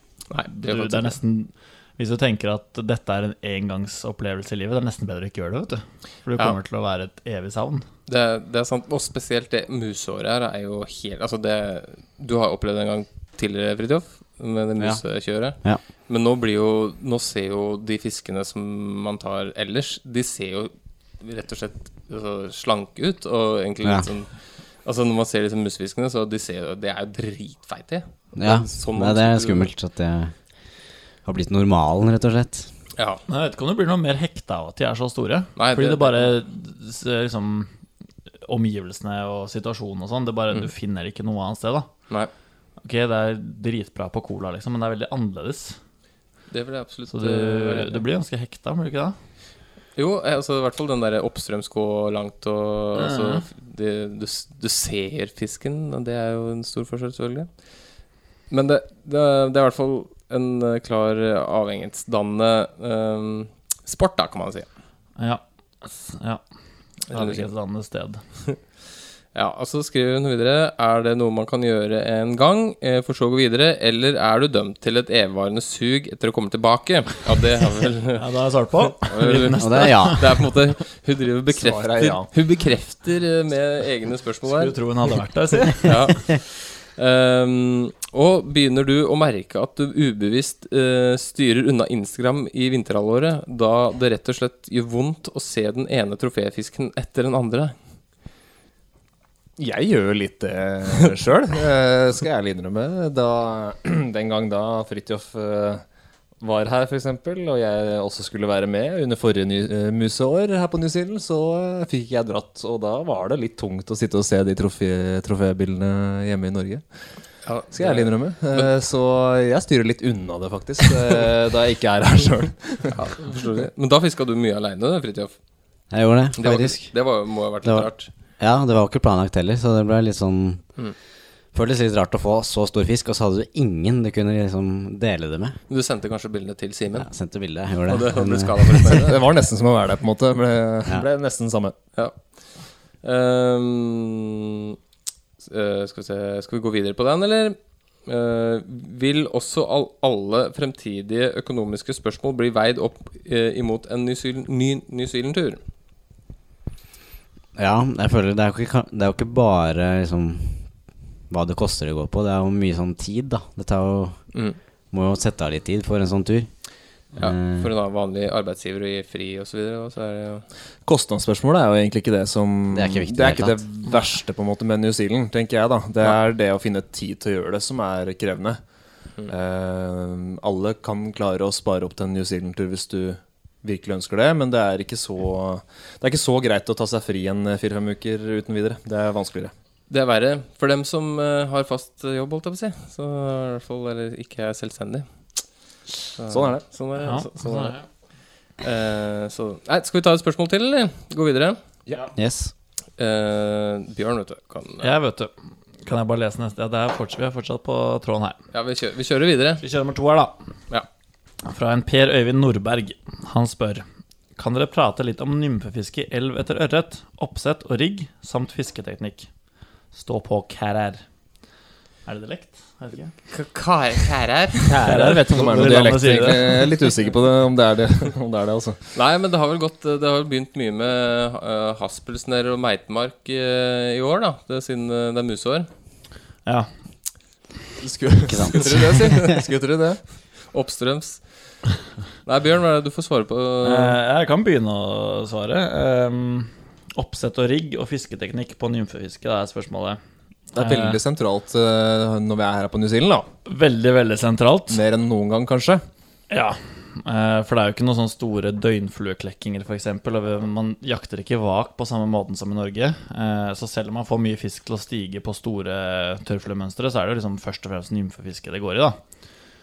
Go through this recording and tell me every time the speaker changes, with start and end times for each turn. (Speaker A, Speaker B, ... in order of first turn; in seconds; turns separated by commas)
Speaker A: 0.3-1.2, Speaker B: 0.5-7.8, Speaker A: 8.1-29.7, Speaker C: 14.8-15.8, Speaker C: 23.8-24.1, Speaker C: 28.4-32.7, Speaker A: 33.0-33.2, Speaker B: 33.3-37.7, Speaker A: 35.5-36.3, Speaker B: 38.5-41.9, Speaker B: 42.8-45.8, Speaker A: 46.5-48.0, Speaker B: 47.1-49.1, Speaker A: 49.9-64.7, Speaker B: 53.0-53.4, Speaker B: 65.2-68.2, Speaker A: 67.1-67.5, Speaker A: 69.3-78.2, Speaker B: 78.2-80.2, Speaker A: 79.0-84.8, Speaker C: 79.6-80.4, Speaker D: 81.5-82.3, Speaker B: 84.5-85.9, Speaker A: 85.8-97.7, Speaker D: 99.6-105.8, Speaker D: 106.4-123.0, Speaker A: 117.4-118.7, Speaker A: 122.9-125.4, Speaker C: 125.9-130.9, Speaker A: 126.4-128.1, Speaker C: 131.5-135.6, Speaker A: 135.7-139.2, Speaker C: 136.9-139.0, Speaker D: 138.9-141.7, Speaker A: 141.9-144.7, Speaker A: 145.4-155.6, Speaker C: 157.5-167.7, Speaker A: 164.3-164.6, Speaker A: 167.2-170.5, Speaker D: 170.8-189.5, Speaker C: 172.7-173.7, Speaker A: 189.9-201.6, Speaker D: 196.3-196.6, Speaker B: 197.0-197.8, Speaker C: 202.1-202.5, Speaker A: 203.0-204.9, Speaker B: 204.8-205.3, Speaker B: 205.8-208.4, Speaker A: 208.5-209.6, Speaker B: 209.6-210.4, Speaker B: 211.4-213.8, Speaker B: 214.3-219.3, Speaker B: 219.9-221.1, Speaker B: 222.1-223.1, Speaker A: 223.3-225.0, Speaker D: 224.7-228.9, Speaker B: 224.8-226.7, Speaker A: 228.9-235.7, Speaker B: 236.4-236.7, Speaker D: 237.8-240.0, Speaker C: 238.3-239.2, Speaker A: 238.5-239.2, Speaker A: 240.1-244.0, Speaker B: 243.6-250.0, Speaker B: 250.5-251.0, Speaker D: 250.5-253.3, Speaker B: 253.4-254.8, Speaker D: 254.7-255.8, Speaker B: 256.3-269.0